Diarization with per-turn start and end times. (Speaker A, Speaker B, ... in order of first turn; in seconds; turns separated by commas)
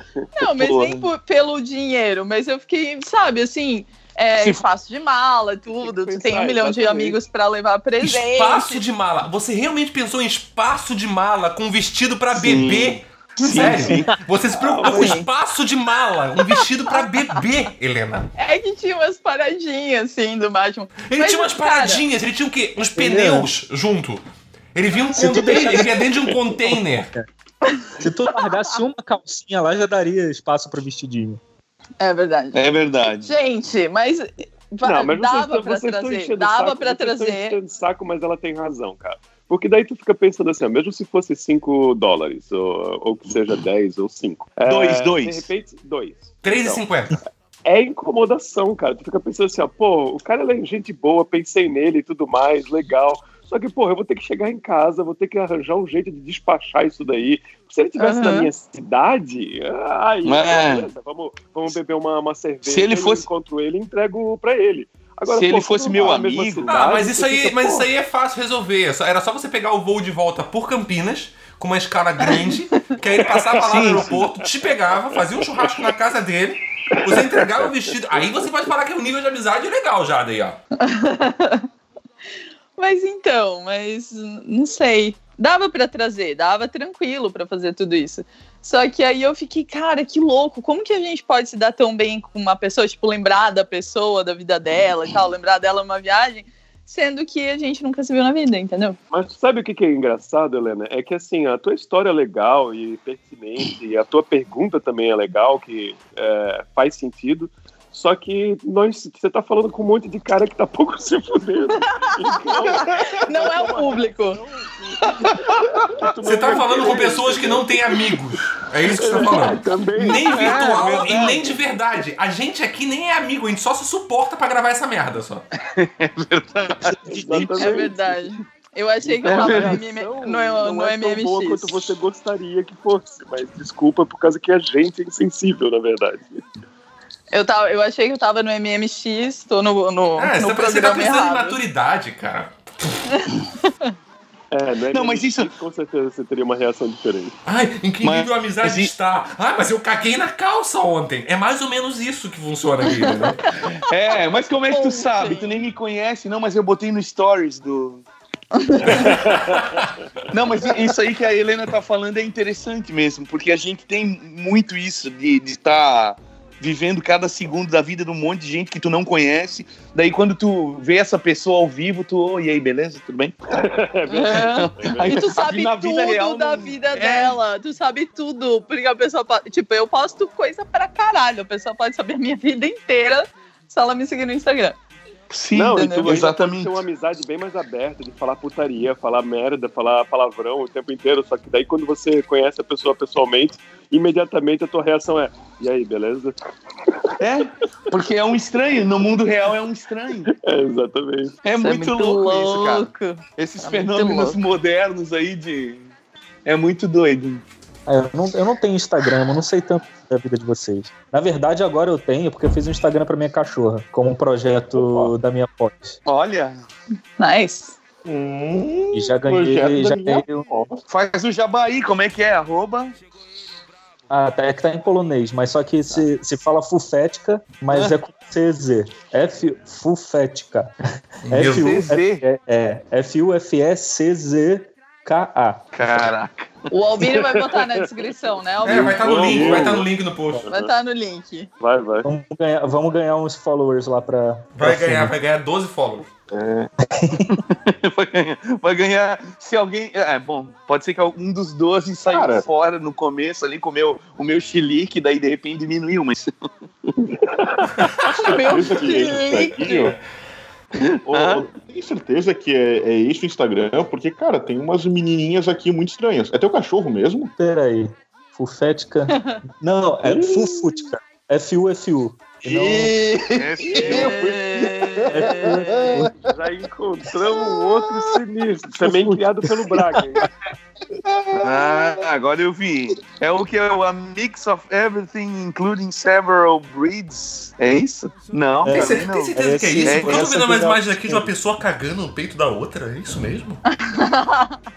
Speaker A: 0.3-8.8, Speaker B: 0.4-1.1, Speaker B: 4.4-4.6, Speaker C: 5.8-7.2, Speaker D: 8.0-18.3, Speaker B: 12.3-14.1, Speaker A: 13.4-13.8, Speaker C: 14.6-15.2, Speaker A: 14.8-15.3, Speaker A: 18.4-22.0, Speaker D: 21.0-24.2, Speaker E: 22.9-23.5, Speaker D: 24.7-27.1, Speaker E: 25.1-26.0, Speaker E: 26.6-27.2, Speaker E: 28.0-31.4, Speaker A: 32.0-37.6, Speaker B: 32.5-33.3, Speaker C: 34.8-46.8, Speaker B: 44.6-45.5, Speaker D: 46.4-47.2, Speaker C: 47.6-67.8, Speaker A: 58.0-58.5, Speaker B: 60.2-60.9, Speaker B: 62.6-63.3, Speaker B: 65.3-66.7, Speaker D: 66.7-80.6, Speaker C: 73.2-74.2, Speaker B: 73.6-74.2, Speaker C: 76.9-77.5, Speaker A: 80.8-81.7, Speaker A: 82.8-99.0, Speaker C: 99.1-117.8, Speaker A: 111.8-112.4, Speaker A: 113.2-114.4, Speaker D: 116.2-125.5, Speaker C: 118.9-120.9, Speaker B: 120.0-121.6, Speaker B: 125.7-128.0, Speaker E: 126.7-127.0, Speaker C: 127.1-128.1, Speaker A: 127.6-131.8, Speaker B: 129.2-129.8, Speaker C: 129.2-136.4, Speaker A: 137.3-141.6, Speaker D: 140.2-143.1, Speaker A: 143.1-143.9, Speaker C: 144.5-147.3, Speaker B: 144.9-145.5, Speaker D: 147.4-153.4, Speaker B: 148.0-148.9, Speaker A: 152.9-153.7, Speaker B: 153.8-158.0, Speaker A: 154.7-155.5, Speaker A: 158.5-159.2, Speaker C: 158.9-159.8, Speaker D: 159.3-159.9, Speaker B: 160.3-173.3, Speaker C: 173.5-175.3, Speaker A: 174.1-184.8, Speaker B: 174.4-177.3, Speaker B: 185.3-186.8, Speaker C: 185.5-196.3, Speaker A: 185.7-186.1, Speaker B: 197.2-200.3, Speaker C: 200.2-201.3, Speaker B: 201.4-205.9, Speaker A: 201.6-204.4, Speaker B: 206.4-207.4, Speaker E: 207.8-216.0, Speaker B: 216.1-216.6, Speaker A: 217.2-217.7, Speaker F: 218.0-220.8, Speaker E: 218.9-220.4, Speaker B: 220.9-222.9, Speaker E: 224.1-230.7, Speaker B: 227.7-228.0, Speaker D: 231.2-231.9, Speaker E: 231.3-235.7, Speaker B: 231.5-232.2, Speaker B: 235.7-237.2, Speaker A: 236.7-239.6, Speaker D: 238.6-240.5, Speaker C: 238.7-240.7, Speaker A: 240.5-241.5, Speaker C: 241.6-242.1, Speaker E: 242.0-245.1, Speaker D: 244.6-246.1, Speaker E: 246.8-247.4, Speaker B: 247.3-256.2, Speaker F: 252.1-252.4, Speaker C: 257.2-259.1, Speaker A: 258.2-259.8, Speaker F: 258.4-260.0, Speaker B: 260.8-261.5, Speaker F: 261.1-267.3, Speaker E: 267.4-272.9, Speaker A: 269.1-269.4, Speaker F: 272.4-276.1, Speaker B: 273.4-274.3, Speaker A: 273.6-276.0, Speaker E: 275.1-276.0, Speaker C: 275.8-280.3, Speaker F: 277.2-277.9, Speaker E: 278.7-280.2, Speaker F: 281.1-282.1, Speaker B: 281.4-290.3, Speaker E: 288.6-291.3, Speaker D: 288.7-293.6, Speaker A: 293.8-294.6